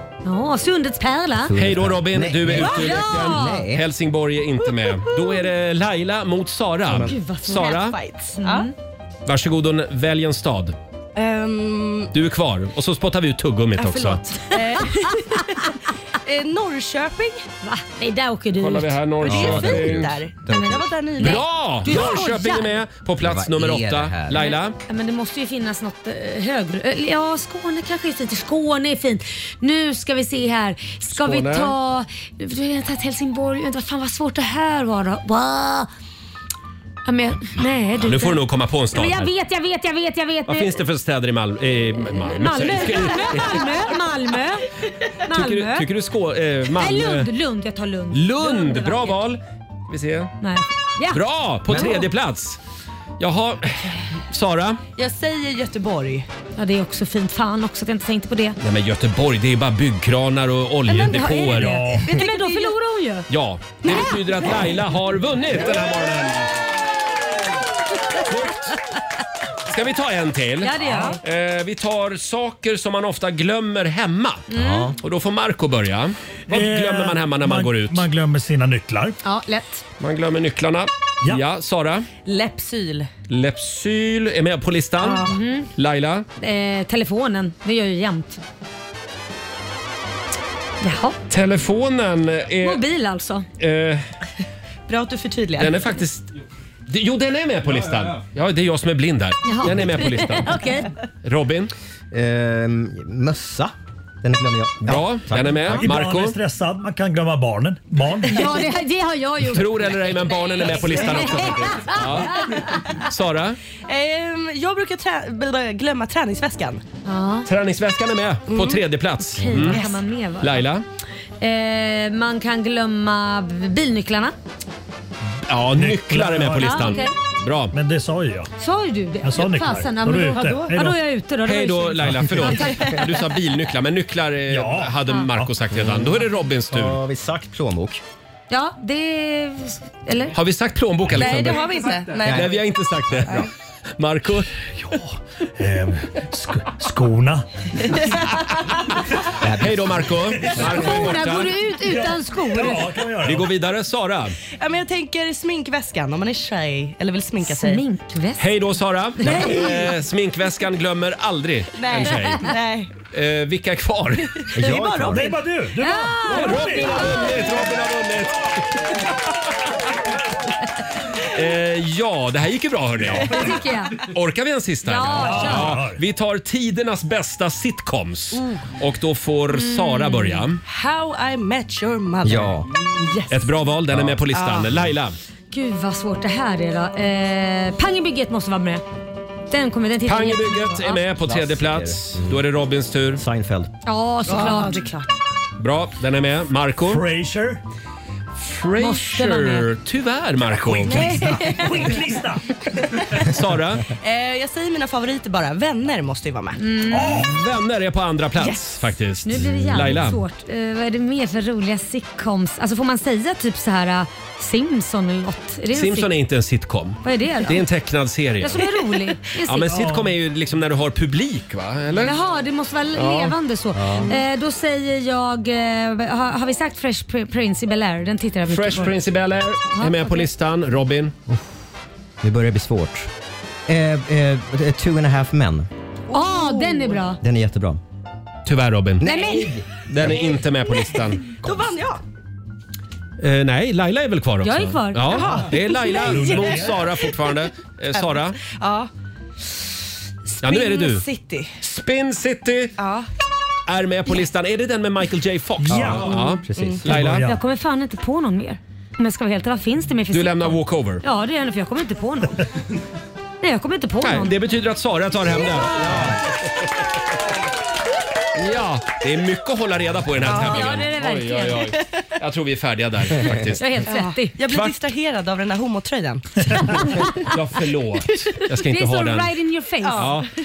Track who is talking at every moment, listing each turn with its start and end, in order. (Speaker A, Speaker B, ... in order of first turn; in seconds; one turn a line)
Speaker A: 0.2-1.6
Speaker B: 1.4-3.9
Speaker C: 1.6-8.0
Speaker A: 2.5-3.6
Speaker B: 6.9-7.2
Speaker A: 7.1-7.8
Speaker D: 7.5-8.7
Speaker A: 8.4-8.7
Speaker C: 9.3-10.8
Speaker D: 11.2-12.1
Speaker C: 12.1-14.2
Speaker A: 13.8-14.8
Speaker D: 14.5-15.7
Speaker D: 16.2-17.4
Speaker A: 17.6-19.4
Speaker C: 18.6-20.1
Speaker D: 19.2-22.1
Speaker B: 19.2-20.9
Speaker C: 21.2-24.8
Speaker A: 21.2-22.7
Speaker B: 23.2-24.5
Speaker A: 24.9-35.9
Speaker C: 31.1-31.7
Speaker A: 37.0-38.4
Speaker C: 38.0-39.3
Speaker A: 38.9-40.8
Speaker C: 40.5-43.8
Speaker A: 42.3-44.7
Speaker A: 45.2-45.9
Speaker C: 45.3-47.3
Speaker A: 46.8-49.0
Speaker C: 48.1-50.3
Speaker A: 50.4-51.2
Speaker C: 51.1-52.6
Speaker B: 51.7-52.0
Speaker C: 53.2-54.8
Speaker D: 55.0-56.3
Speaker A: 56.6-58.6
Speaker C: 58.6-61.8
Speaker A: 60.9-63.3
Speaker E: 61.6-62.1
Speaker D: 62.0-62.7
Speaker C: 63.3-66.5
Speaker D: 63.8-64.5
Speaker C: 68.2-68.8
Speaker C: 69.7-78.1
Speaker A: 70.6-71.2
Speaker D: 70.8-71.2
Speaker A: 74.5-74.9
Speaker B: 74.5-75.0
Speaker E: 76.5-79.2
Speaker A: 79.2-79.8
Speaker C: 80.0-82.1
Speaker D: 82.2-83.1
Speaker C: 83.3-86.3
Speaker D: 85.0-85.4
Speaker A: 85.2-85.7
Speaker A: 86.4-88.4
Speaker A: 90.8-91.2
Speaker C: 91.3-92.8
Speaker A: 92.6-93.5
Speaker C: 93.6-94.0
Speaker D: 94.9-95.8
Speaker C: 95.6-96.3
Speaker C: 96.9-100.6
Speaker A: 99.4-100.9
Speaker C: 101.2-101.7
Speaker B: 102.1-105.8
Speaker C: 104.9-106.4
Speaker E: 105.7-108.6
Speaker A: 108.3-109.7
Speaker C: 109.5-113.6
Speaker D: 110.3-112.0
Speaker A: 111.0-112.6
Speaker D: 113.9-116.8
Speaker A: 117.0-117.5
Speaker C: 117.5-119.8
Speaker D: 118.5-118.8
Speaker A: 119.4-120.6
Speaker D: 119.7-120.0
Speaker C: 120.4-120.8
Speaker A: 121.4-124.3
Speaker C: 125.5-127.7
Speaker E: 125.7-126.9
Speaker A: 126.6-127.1
Speaker E: 127.7-128.5
Speaker A: 128.6-132.8
Speaker E: 129.2-131.0
Speaker C: 131.4-137.0
Speaker D: 132.6-133.2
Speaker E: 134.5-135.5
Speaker B: 135.8-136.1
Speaker B: 136.7-138.0
Speaker A: 138.5-140.3
Speaker C: 140.3-144.5
Speaker D: 141.1-142.5
Speaker B: 142.2-142.5
Speaker E: 144.8-147.5
Speaker B: 149.4-149.9
Speaker C: 149.6-151.5
Speaker E: 150.5-150.9
Speaker A: 150.8-152.9
Speaker E: 151.9-153.5
Speaker C: 153.2-154.4
Speaker D: 154.6-157.8
Speaker A: 157.5-158.5
Speaker C: 158.4-162.5
Speaker A: 159.2-159.7
Speaker B: 159.2-159.7
Speaker D: 161.7-162.9
Speaker C: 163.1-164.5
Speaker D: 164.4-165.3
Speaker B: 164.6-165.3
Speaker E: 165.1-167.2
Speaker A: 165.8-167.5
Speaker C: 166.3-169.0
Speaker C: 171.3-180.6
Speaker A: 173.3-174.0
Speaker A: 174.8-175.7
Speaker E: 175.2-176.0
Speaker A: 179.5-180.4
Speaker D: 180.7-183.6
Speaker B: 182.2-182.7
Speaker C: 183.3-185.2
Speaker D: 184.3-184.8
Speaker A: 185.5-188.8
Speaker A: 189.5-191.0
Speaker C: 190.1-193.2
Speaker B: 191.2-192.4
Speaker B: 193.2-193.7
Speaker A: 193.8-195.0
Speaker D: 194.3-195.1
Speaker C: 195.6-197.1
Speaker E: 196.8-197.6
Speaker C: 198.4-201.1
Speaker A: 198.8-199.7
Speaker D: 200.8-202.0
Speaker E: 200.8-202.4
Speaker C: 203.3-203.9
Speaker D: 204.0-206.6
Speaker A: 206.6-207.2
Speaker E: 206.9-207.3
Speaker C: 207.2-210.2
Speaker D: 208.4-208.9
Speaker A: 209.2-216.1
Speaker C: 215.7-218.7
Speaker A: 217.0-217.6
Speaker A: 218.4-219.8
Speaker C: 219.4-222.2
Speaker E: 219.7-220.1
Speaker A: 222.0-229.0
Speaker C: 223.0-223.3
Speaker B: 223.7-224.1
Speaker C: 228.5-231.2
Speaker A: 229.7-230.3
Speaker B: 232.2-233.1
Speaker B: 233.7-235.7
Speaker A: 236.1-237.2
Speaker D: 236.2-237.1
Speaker B: 237.2-237.8
Speaker C: 238.5-239.1
Speaker B: 239.0-239.7
Speaker A: 239.0-239.5
Speaker C: 239.9-241.2
Speaker D: 240.0-242.0
Speaker C: 243.2-248.4
Speaker A: 244.4-245.4
Speaker D: 245.1-247.3
Speaker E: 245.9-246.8
Speaker D: 247.9-248.9
Speaker D: 250.3-251.5
Speaker C: 250.4-251.1
Speaker C: 251.6-252.8
Speaker D: 252.8-253.1
Speaker C: 253.7-257.2
Speaker E: 255.6-256.2
Speaker B: 256.4-256.8
Speaker D: 256.6-256.8
Speaker E: 256.9-257.4
Speaker A: 257.2-262.4
Speaker C: 260.1-261.0
Speaker A: 263.4-264.4
Speaker C: 264.0-266.2
Speaker B: 265.4-266.2
Speaker C: 268.4-273.8
Speaker D: 270.2-270.7
Speaker A: 270.4-271.6
Speaker A: 273.6-274.4
Speaker D: 273.9-277.0
Speaker C: 274.5-274.8
Speaker A: 276.9-277.1
Speaker C: 277.1-279.3
Speaker A: 278.7-280.1
Speaker D: 279.8-280.2
Speaker C: 280.0-280.3